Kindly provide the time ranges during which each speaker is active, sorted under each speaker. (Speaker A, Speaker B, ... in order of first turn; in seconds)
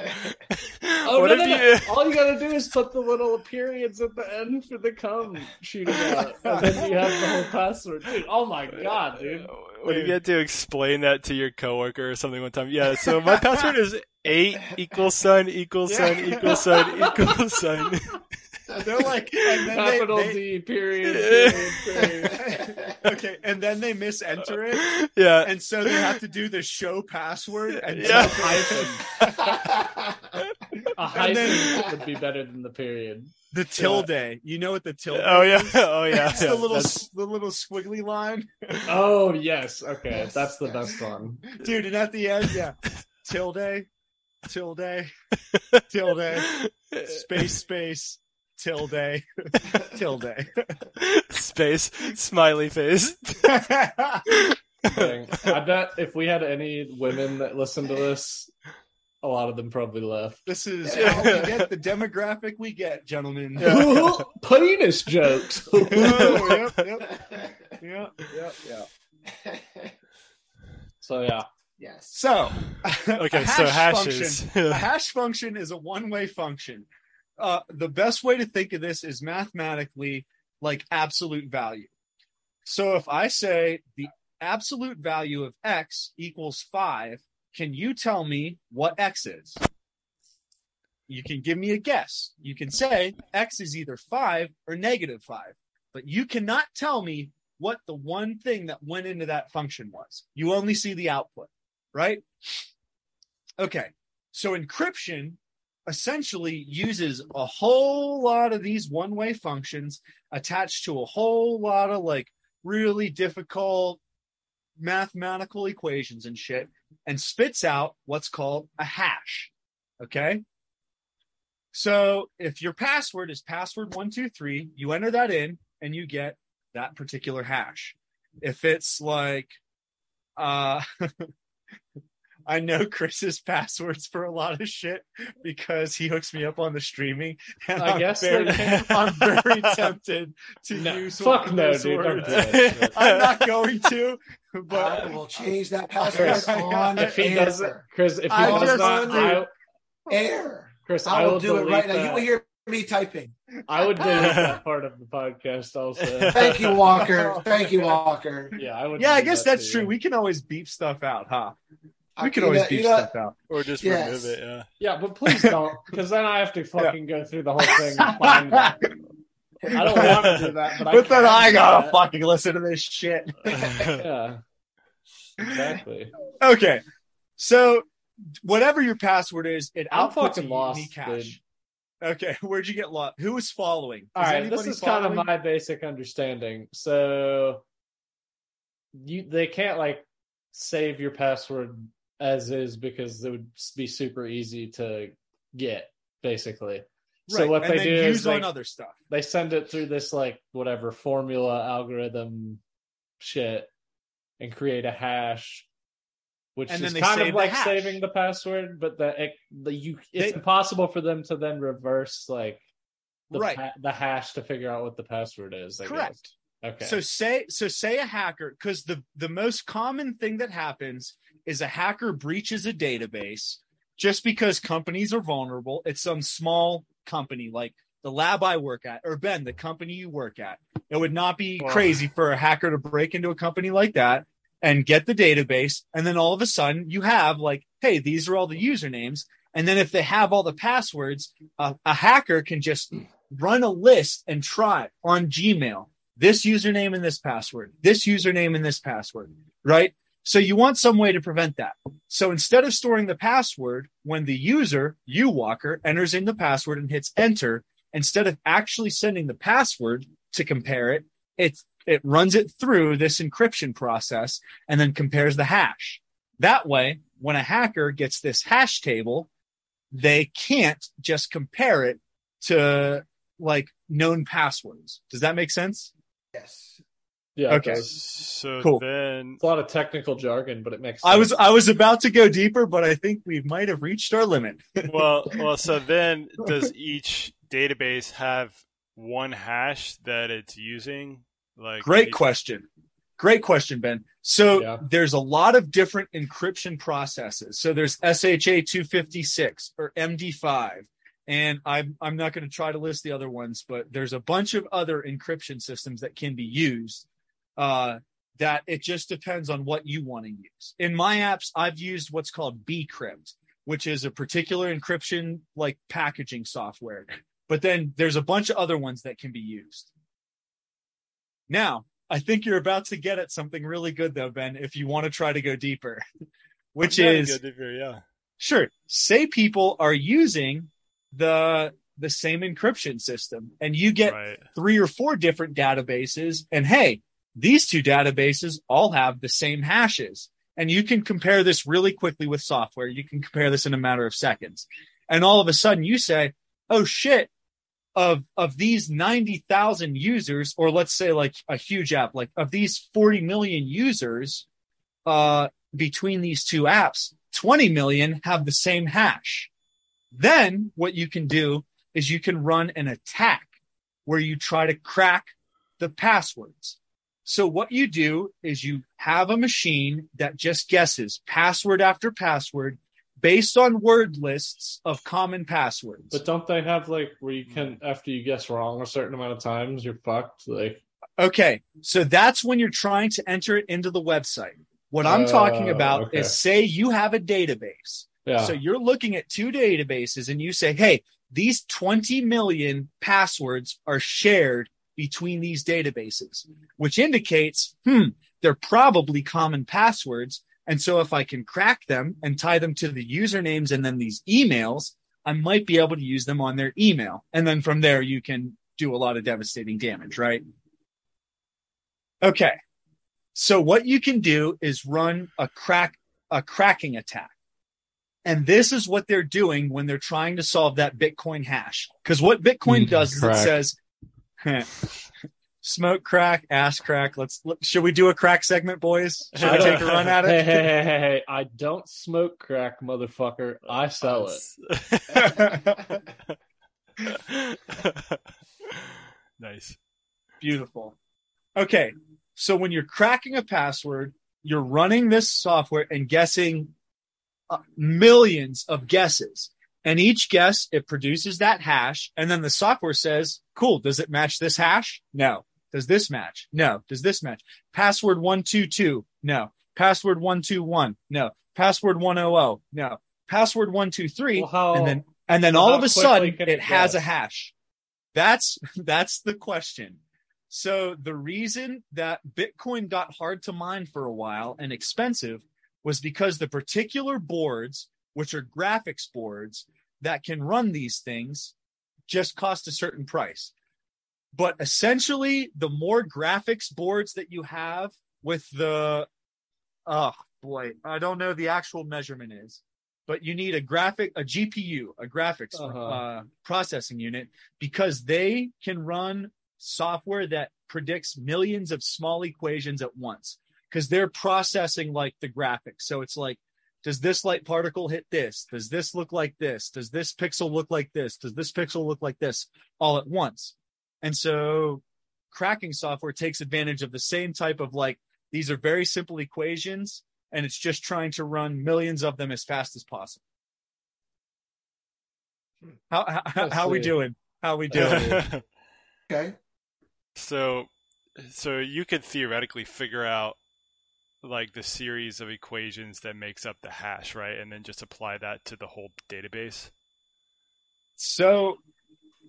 Speaker A: 0.2-2.1, 9.5-19.7, 21.0-22.1, 24.7-26.2, 27.7-29.6, 35.1-37.0, 46.3-47.5, 51.0-53.6, 54.3-55.5, 60.9-61.7, 63.6-64.2, 65.9-66.8, 73.2-74.9, 138.5-139.9, 142.3-143.6, 154.2-154.6, 156.0-157.1, 163.5-164.7, 170.0-170.5, 173.5-174.1, 277.8-279.4, 284.8-292.2, 326.8-328.0, 334.1-334.4, 377.5-377.8, 429.3-430.2, 434.0-435.7, 437.0-438.8, 439.4-439.8, 527.7-528.4, 530.2-533.4, 534.2-539.7
Speaker B: 1.0-9.5, 19.7-22.6, 28.0-29.0, 30.9-34.1, 38.9-41.4, 54.9-58.5, 59.2-60.5, 63.6-66.4, 71.0-71.5, 137.8-138.9, 140.7-142.9, 146.1-149.5, 150.8-152.3, 153.7-156.7, 158.6-159.9, 164.8-168.9, 169.7-172.0, 173.9-174.4, 175.4-176.1, 179.9-181.4, 184.2-187.6, 188.9-198.5, 199.1-202.6, 203.2-203.7, 204.4-205.7, 206.6-212.6, 213.3-217.0, 277.4-277.9, 279.4-281.3, 294.5-294.8, 376.1-380.8, 385.0-386.4, 388.2-388.6, 422.7-423.6, 429.4-434.4, 464.3-467.0, 495.5-496.0, 526.4-527.0, 527.7-528.3
Speaker C: 6.4-6.9, 9.9-10.2, 13.2-13.7, 15.9-16.7, 18.7-20.4, 22.3-24.9, 25.4-29.5, 31.1-31.9, 33.5-38.9, 41.5-43.9, 44.5-45.1, 45.9-50.8, 53.5-54.2, 60.5-64.0, 65.9-68.9, 72.1-76.9, 77.4-81.9, 82.6-89.6, 91.1-102.2, 103.6-114.0, 114.8-120.4, 121.7-129.6, 130.4-131.3, 132.4-145.2, 146.0-147.5, 148.3-149.4, 154.0-154.4, 156.9-158.0, 159.0-161.6, 162.2-163.4, 165.3-165.6, 167.6-168.8, 169.7-173.6, 176.4-176.8, 177.4-177.9, 178.4-181.4, 182.0-185.3, 197.3-199.0, 206.7-208.0, 213.3-213.6, 215.8-216.2, 216.8-269.3, 269.9-275.9, 277.5-277.8, 281.0-285.4, 291.8-292.7, 293.2-307.1, 307.6-319.9, 321.5-326.0, 326.7-327.4, 328.4-347.3, 347.9-354.4, 355.1-359.5, 360.1-363.5, 364.1-376.2, 381.2-410.4, 412.2-412.6, 413.3-417.3, 418.2-423.8, 424.4-424.7, 425.6-430.7, 435.1-436.0, 440.4-440.9, 441.6-446.7, 447.5-467.5, 468.1-481.5, 482.1-483.5, 484.3-489.1, 489.9-523.2, 525.9-528.2, 541.0-541.6
Speaker D: 22.4-22.8, 29.6-30.2, 40.1-41.0, 60.8-61.3, 67.0-67.6, 69.3-69.9, 71.8-72.1, 144.7-149.4, 150.1-153.3, 156.3-158.6, 162.2-163.1, 163.8-164.4, 276.3-276.8, 529.1-529.4